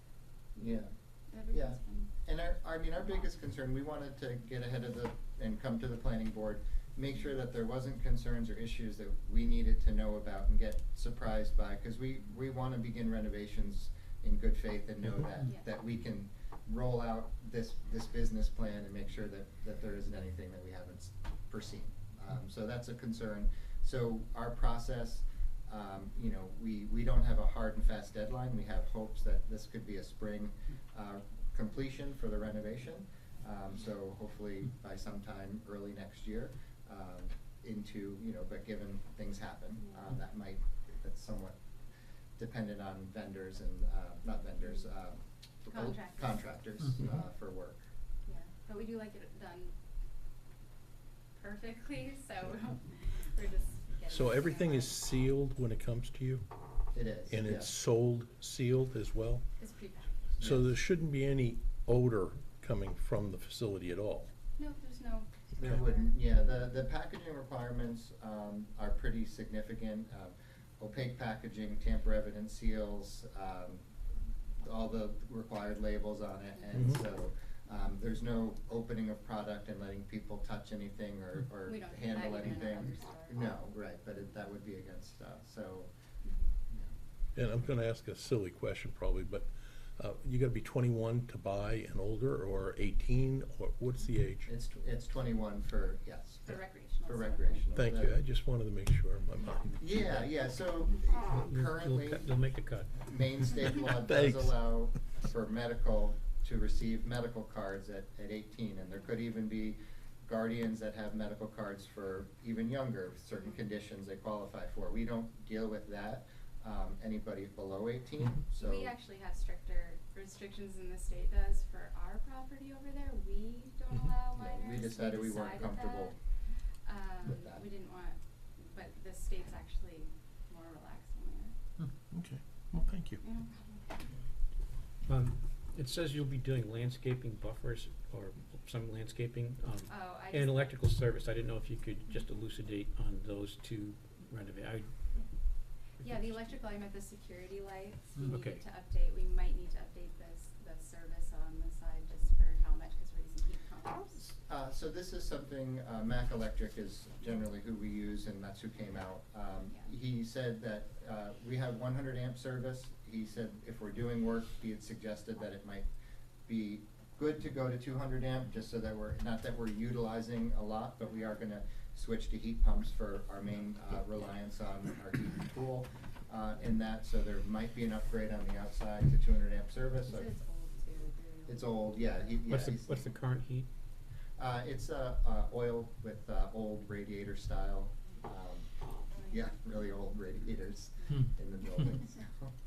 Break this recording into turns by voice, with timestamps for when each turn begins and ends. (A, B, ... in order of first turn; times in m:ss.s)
0:00.6-0:02.1 A
0:00.6-0:00.9 B
0:01.5-0:41.6 B
0:39.8-0:40.1 A
0:42.4-0:47.9 B
0:45.7-0:46.5 A
0:48.3-0:49.8 A
0:51.4-0:55.0 A
0:54.1-0:56.5 C
0:56.9-0:57.7 B
0:57.3-0:59.4 C
0:59.6-1:00.2 A
1:00.4-1:00.7 B
1:00.4-1:04.3 C
1:04.6-1:06.7 A
1:05.6-1:13.8 B
1:14.6-1:25.9 B
1:16.7-1:17.0 C
1:21.6-1:23.5 A
1:26.2-1:26.5 A
1:27.4-1:34.5 C
1:34.4-1:38.2 B
1:36.5-1:37.7 A
1:37.8-1:40.3 C
1:39.8-1:42.4 B
1:41.4-1:42.9 D
1:43.0-1:58.9 B
1:43.9-1:44.6 C
1:58.6-2:06.2 A
2:04.3-2:06.2 B
2:06.8-2:11.6 A
2:07.2-2:07.6 B
2:12.1-2:13.2 C
2:13.2-2:14.0 A
2:15.1-2:24.9 D
2:19.9-2:20.8 A
2:25.5-2:26.4 D
2:26.0-2:34.2 A
2:28.2-2:28.6 D
2:34.0-2:45.9 B
2:39.6-2:39.9 A
2:46.5-3:00.3 B
3:00.0-3:02.4 A
3:01.5-3:03.1 B
3:02.5-3:03.7 D
3:04.4-3:08.7 B
3:09.1-3:09.9 A
3:09.3-3:12.5 B
3:11.0-3:11.3 A